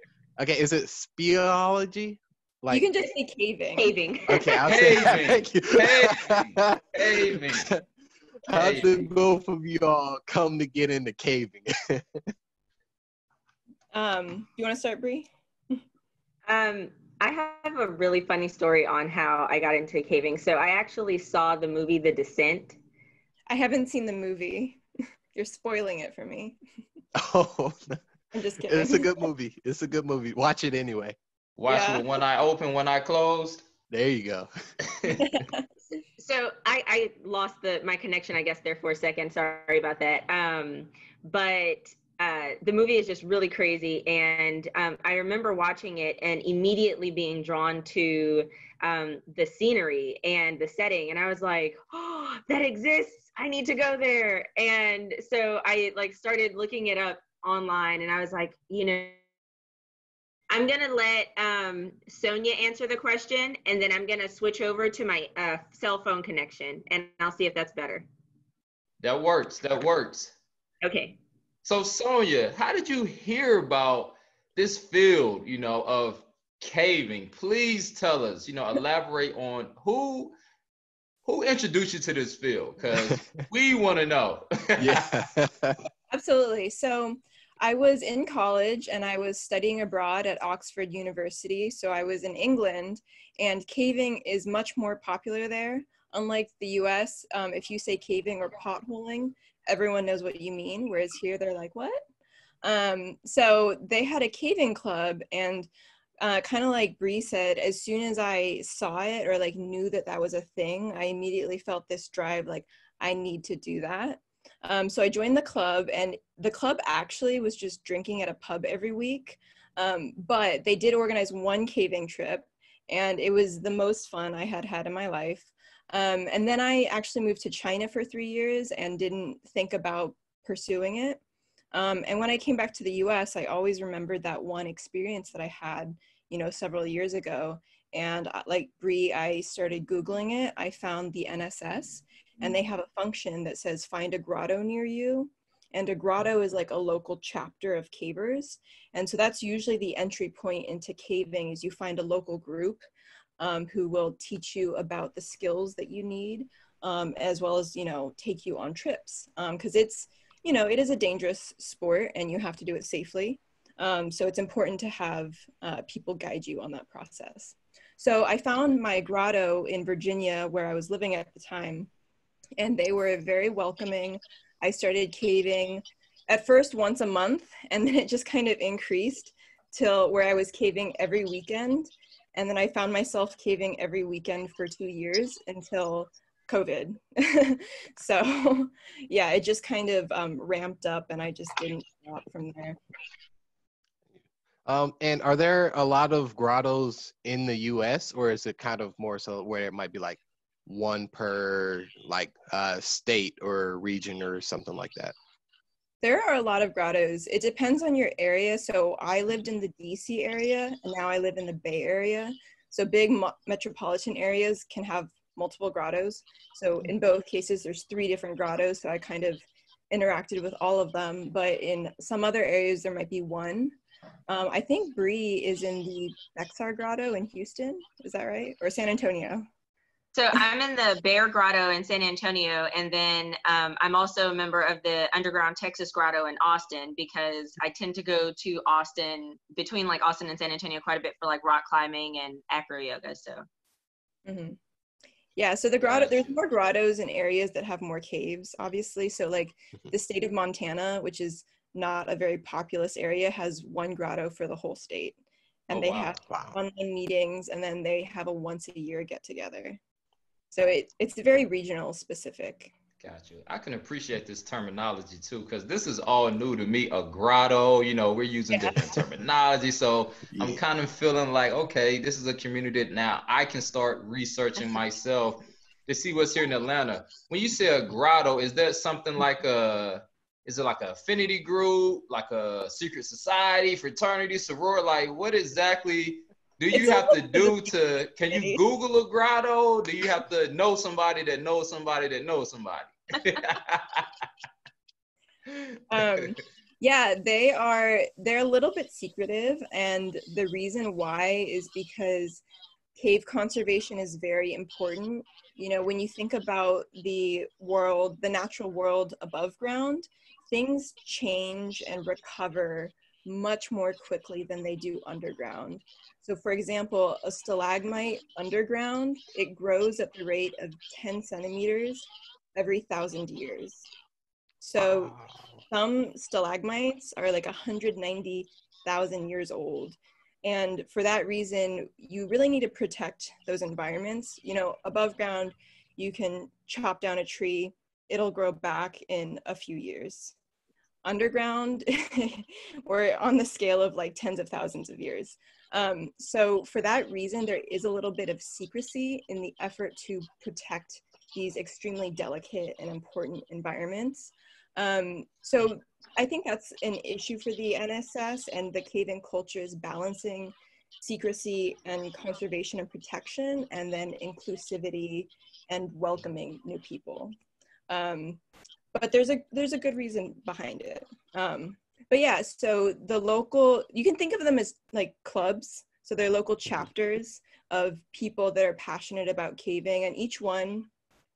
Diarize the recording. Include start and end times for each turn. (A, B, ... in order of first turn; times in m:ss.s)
0:00.4-0:02.9 A
0:02.7-0:04.0 B
0:03.8-0:04.5 C
0:04.3-0:07.8 A
0:04.6-0:07.7 D
0:08.5-0:12.2 A
0:08.5-0:09.0 D
0:13.9-0:15.8 B
0:16.5-0:22.8 C
0:23.5-0:24.8 B
0:25.3-0:26.6 B
0:27.2-0:28.0 A
0:28.3-0:29.1 B
0:28.6-0:31.2 A
0:31.6-0:33.6 D
0:31.7-0:32.0 B
0:33.9-0:34.5 A
0:34.8-0:35.2 D
0:35.1-0:35.7 B
0:36.2-0:59.2 C
1:00.5-1:08.1 C
1:09.0-1:10.4 D
1:10.8-1:11.2 C
1:11.6-1:20.4 D
1:21.3-1:25.1 D
1:24.8-1:25.8 A
1:26.1-1:42.0 B
1:42.6-1:45.7 B
1:46.2-2:11.2 B
2:11.7-2:32.9 B
2:33.4-2:51.9 B
2:52.6-3:12.8 B
3:14.7-3:25.2 A
3:26.0-3:43.8 B
3:44.3-3:49.5 B
3:50.2-4:03.4 C
4:04.3-4:04.6 B
4:05.4-4:15.2 B
4:05.8-4:06.4 D
4:15.7-4:19.8 B
4:15.7-4:16.2 D
4:16.3-4:16.6 A
4:20.5-4:22.7 B
4:23.0-4:54.1 D
4:30.3-4:30.6 A
4:46.7-4:47.8 B
4:48.3-4:48.6 B
4:55.9-5:02.4 B
5:03.0-5:23.9 B
5:24.6-5:25.2 B
5:24.8-5:25.4 A
5:25.7-5:40.4 B
5:41.0-6:07.3 B
6:07.9-6:08.4 B
6:08.9-6:20.9 B